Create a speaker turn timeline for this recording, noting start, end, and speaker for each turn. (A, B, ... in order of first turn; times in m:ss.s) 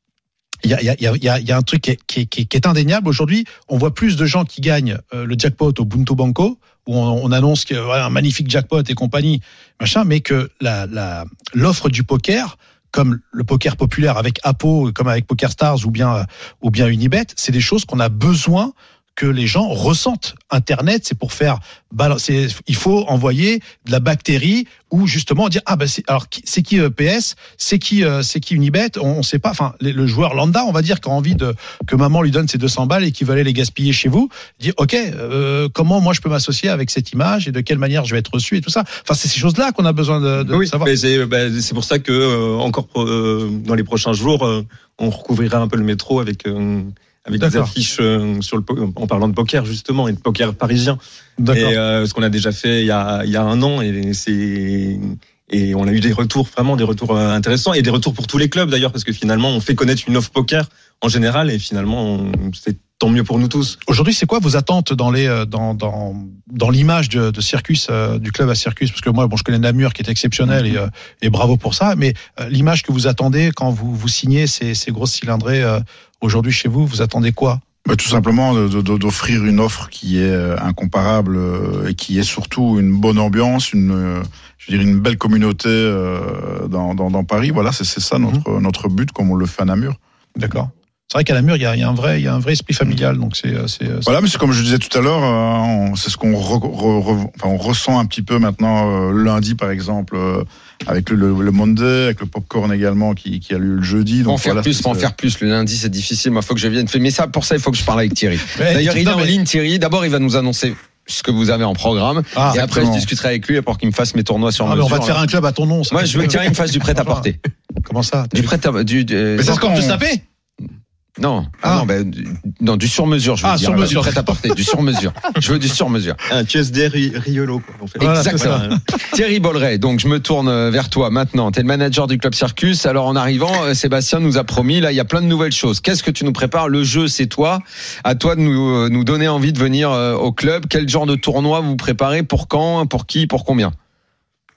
0:00.6-0:40.9 A
0:40.5-0:51.0 B
0:47.4-0:47.7 A
0:51.4-0:51.8 A
0:51.5-1:03.8 B
1:03.9-1:17.6 A
1:17.8-1:30.0 C
1:30.4-1:34.1 A
1:34.0-1:45.1 C
1:44.2-1:55.2 D
1:48.5-1:49.4 A
1:52.3-1:52.6 A
1:52.5-1:53.1 C
1:54.6-1:57.2 A
1:55.9-1:57.4 D
1:57.8-1:58.5 A
1:58.3-1:59.9 D
1:59.4-2:00.0 C
1:59.4-2:00.2 A
2:01.2-2:06.2 D
2:03.4-2:04.6 A
2:06.3-2:08.8 B
2:08.0-2:08.7 A
2:08.2-2:23.7 D